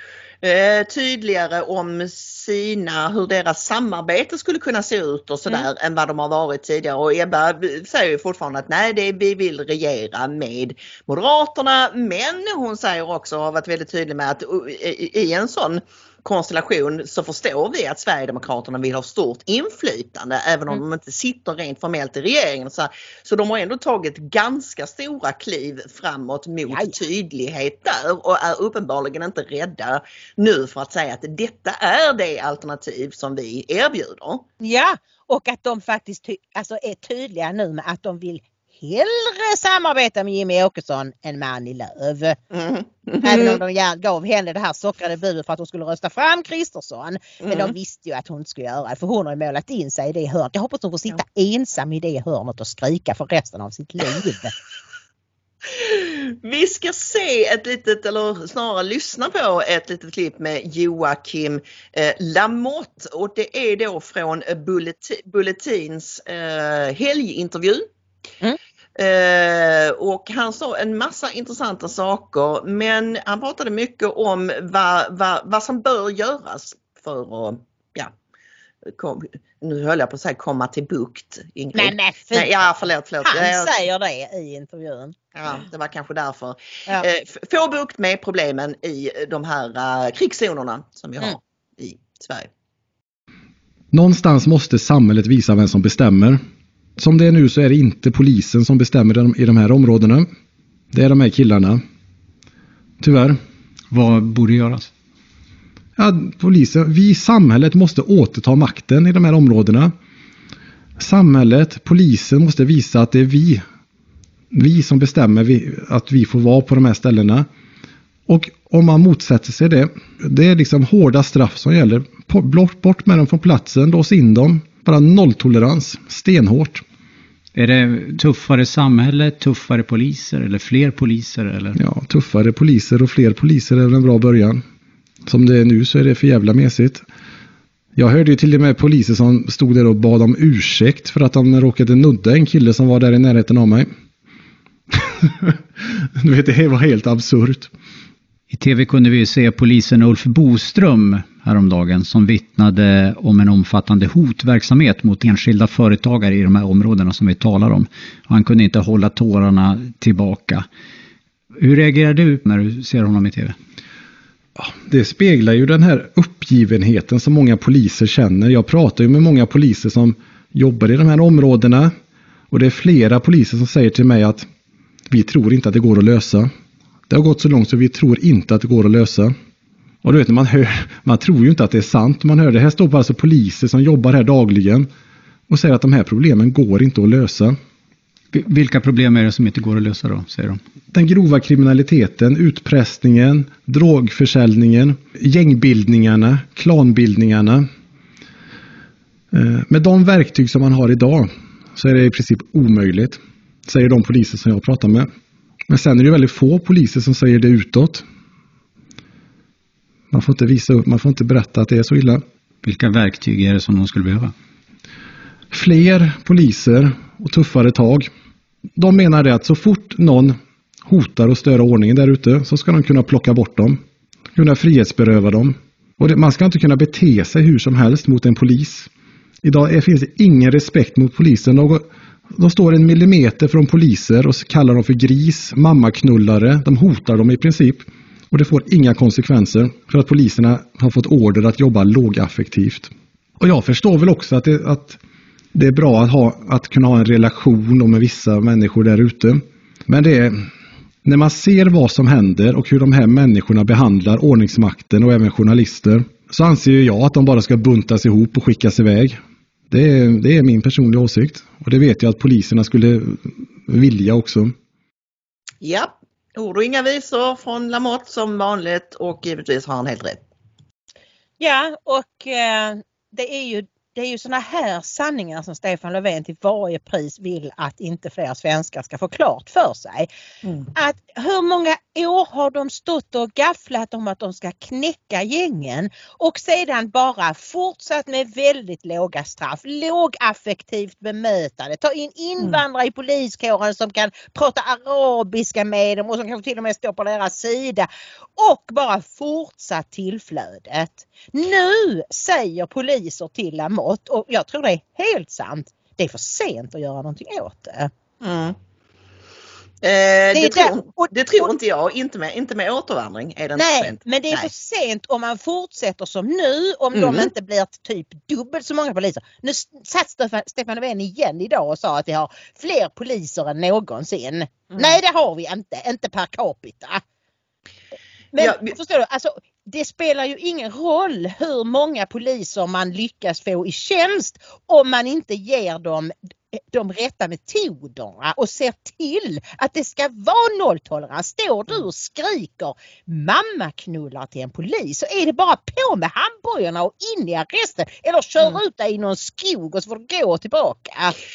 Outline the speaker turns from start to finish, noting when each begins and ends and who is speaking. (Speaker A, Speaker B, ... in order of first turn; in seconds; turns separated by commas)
Speaker A: 0.4-34.5, Speaker B: 26.7-27.0, Speaker B: 34.6-42.4, Speaker A: 42.5-43.6, Speaker B: 43.2-54.5, Speaker A: 47.4-47.7, Speaker A: 55.7-67.9, Speaker A: 69.0-78.1, Speaker A: 78.8-83.7, Speaker B: 81.7-82.6, Speaker B: 83.2-85.2, Speaker A: 85.3-92.5, Speaker C: 93.9-96.4, Speaker C: 97.0-100.3, Speaker C: 100.9-101.8, Speaker C: 103.0-103.4, Speaker D: 103.9-104.9, Speaker C: 106.0-109.9, Speaker C: 111.0-113.6, Speaker C: 114.5-117.5, Speaker C: 118.3-126.8, Speaker D: 127.5-131.8, Speaker C: 131.8-134.6, Speaker C: 135.3-137.1, Speaker C: 137.9-143.9, Speaker C: 145.2-145.5, Speaker C: 146.2-147.7, Speaker D: 148.5-160.7, Speaker D: 161.5-163.6, Speaker C: 164.6-171.9, Speaker C: 172.5-174.5, Speaker C: 175.1-176.5, Speaker C: 177.1-179.4, Speaker C: 180.0-184.9, Speaker C: 185.5-187.6, Speaker D: 188.3-190.6, Speaker C: 190.9-197.7, Speaker C: 199.3-205.1, Speaker C: 205.7-208.0, Speaker C: 210.1-212.2, Speaker D: 212.6-214.3, Speaker C: 215.5-218.1, Speaker C: 218.8-223.8, Speaker C: 224.4-228.9, Speaker C: 229.4-245.0, Speaker C: 245.5-250.5, Speaker C: 251.1-259.2, Speaker C: 259.7-264.5, Speaker A: 265.6-270.2, Speaker B: 271.4-280.1, Speaker B: 280.7-307.9, Speaker A: 308.2-308.6, Speaker A: 309.8-314.5, Speaker B: 310.3-311.5, Speaker B: 313.6-327.0, Speaker A: 316.9-317.3, Speaker A: 324.7-325.0, Speaker B: 328.3-336.1, Speaker A: 328.4-328.7, Speaker B: 336.7-351.1